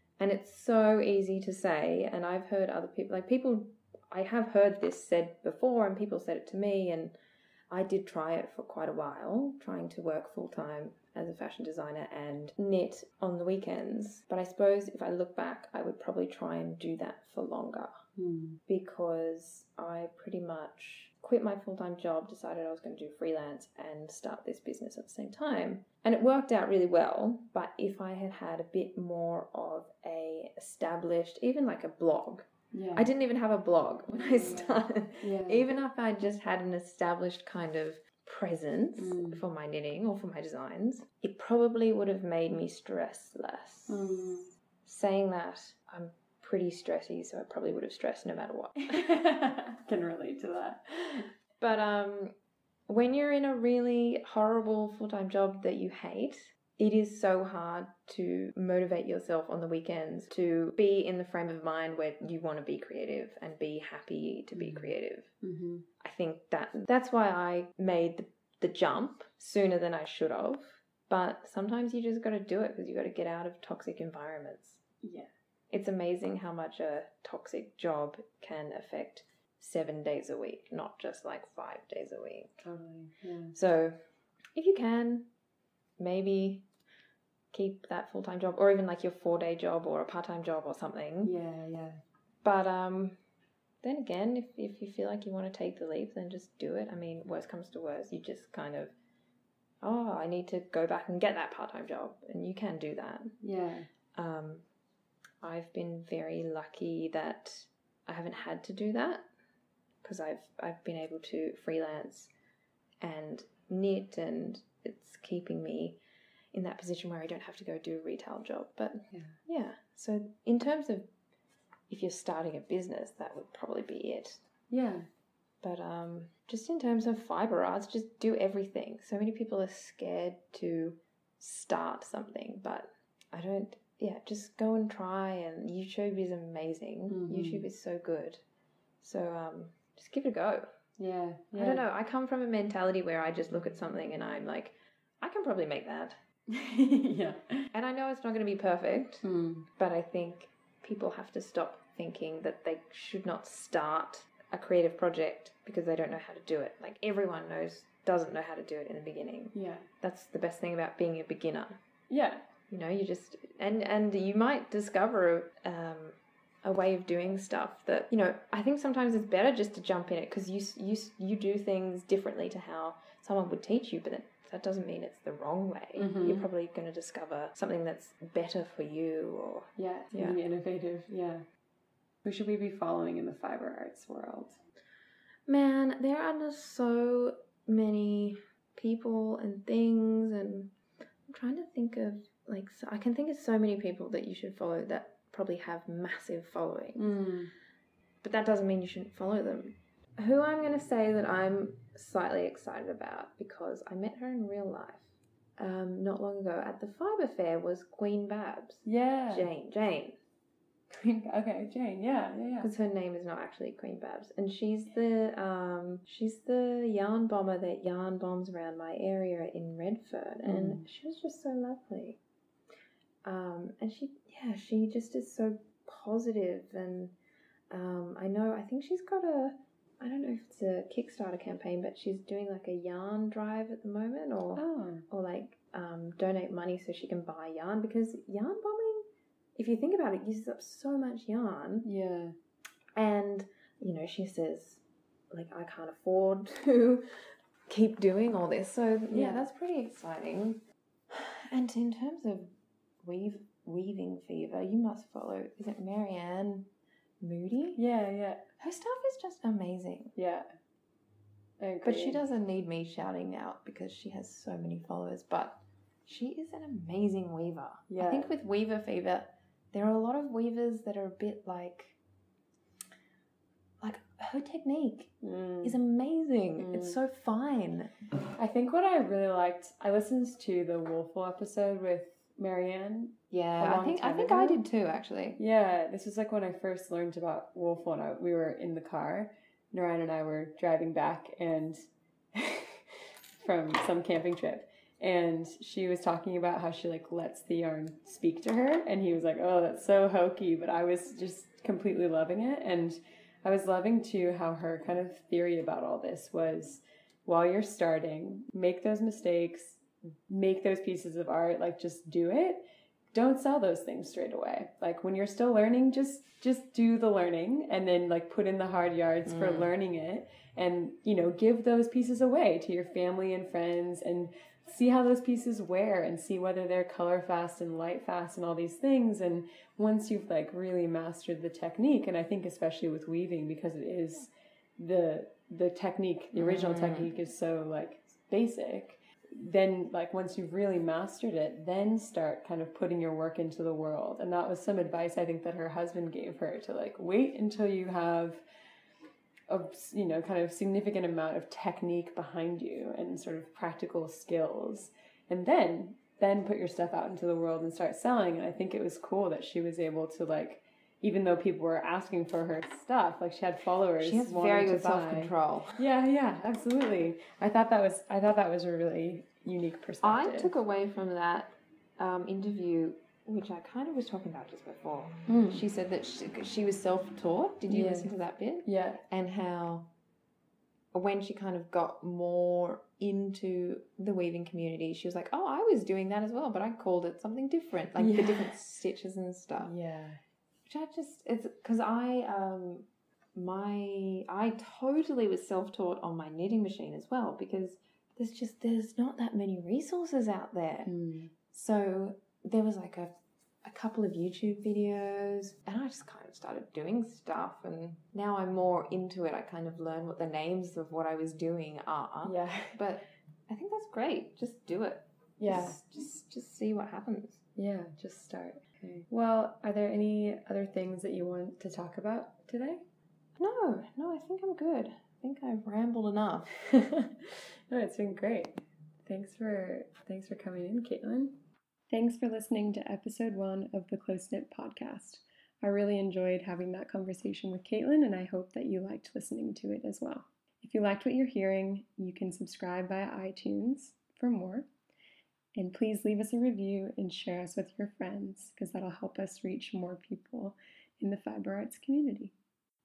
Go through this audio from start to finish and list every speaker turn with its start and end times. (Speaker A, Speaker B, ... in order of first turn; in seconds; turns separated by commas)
Speaker A: 0.2-7.1, Speaker A: 7.7-17.9, Speaker B: 18.2-18.6, Speaker A: 18.7-44.1, Speaker B: 32.7-33.1, Speaker B: 34.1-35.7, Speaker B: 39.0-39.4, Speaker B: 43.9-44.5, Speaker A: 44.9-49.1, Speaker B: 48.9-51.3, Speaker A: 51.6-52.3, Speaker A: 52.9-65.3, Speaker B: 64.5-65.9, Speaker A: 66.0-74.8, Speaker B: 75.0-75.3, Speaker A: 75.7-82.6, Speaker B: 82.6-83.6, Speaker A: 83.5-84.0, Speaker A: 84.5-85.3, Speaker A: 86.0-86.7, Speaker A: 87.5-91.3, Speaker B: 91.2-92.0, Speaker A: 92.4-93.2, Speaker A: 93.8-98.9, Speaker A: 99.8-103.3, Speaker B: 103.4-103.9, Speaker A: 104.1-104.6, Speaker A: 105.4-109.3, Speaker A: 110.0-112.3, Speaker A: 113.0-116.0, Speaker A: 116.5-121.1, Speaker B: 119.1-119.4, Speaker A: 121.9-124.4, Speaker B: 124.7-125.1, Speaker A: 125.6-138.4, Speaker B: 137.1-137.7, Speaker A: 139.0-140.7, Speaker B: 141.0-141.8, Speaker A: 141.6-146.2, Speaker B: 146.5-147.7, Speaker A: 147.7-149.2, Speaker B: 149.2-149.7, Speaker A: 149.8-161.8, Speaker B: 159.5-159.9, Speaker B: 162.1-162.5, Speaker A: 162.7-180.4, Speaker B: 176.0-176.5, Speaker B: 179.8-181.5, Speaker B: 182.2-184.6, Speaker A: 185.5-190.7, Speaker A: 191.3-197.2, Speaker B: 197.0-197.5, Speaker A: 198.2-210.2, Speaker B: 208.8-209.5, Speaker B: 210.9-212.7, Speaker A: 212.6-222.2, Speaker B: 220.4-220.9, Speaker A: 223.2-227.2, Speaker A: 227.7-241.9, Speaker B: 234.6-235.1, Speaker B: 241.8-242.3, Speaker A: 243.0-247.1, Speaker A: 247.7-256.7, Speaker B: 249.1-249.5, Speaker A: 257.2-257.8, Speaker B: 257.8-258.5, Speaker A: 258.6-260.1, Speaker B: 260.2-260.5, Speaker B: 261.6-262.2, Speaker A: 261.8-272.0, Speaker B: 267.9-268.3, Speaker A: 273.8-275.1, Speaker B: 275.2-275.8, Speaker A: 275.6-277.9, Speaker B: 276.6-277.0, Speaker B: 278.3-284.6, Speaker A: 283.3-285.4, Speaker B: 285.4-291.8, Speaker B: 292.3-312.6, Speaker B: 313.1-348.4, Speaker A: 319.3-319.7, Speaker A: 336.4-337.1, Speaker B: 349.5-370.5, Speaker A: 364.0-365.8, Speaker A: 370.0-379.9, Speaker B: 375.3-375.6, Speaker B: 377.7-378.1, Speaker B: 378.6-379.0, Speaker A: 380.9-389.7, Speaker B: 388.0-388.5, Speaker B: 389.6-390.2, Speaker A: 390.7-400.9, Speaker B: 400.9-401.3, Speaker A: 401.5-417.4, Speaker B: 412.2-412.8, Speaker B: 415.4-415.8, Speaker B: 417.6-422.8, Speaker A: 423.4-426.5, Speaker B: 426.6-431.4, Speaker B: 431.9-444.7, Speaker B: 445.6-452.3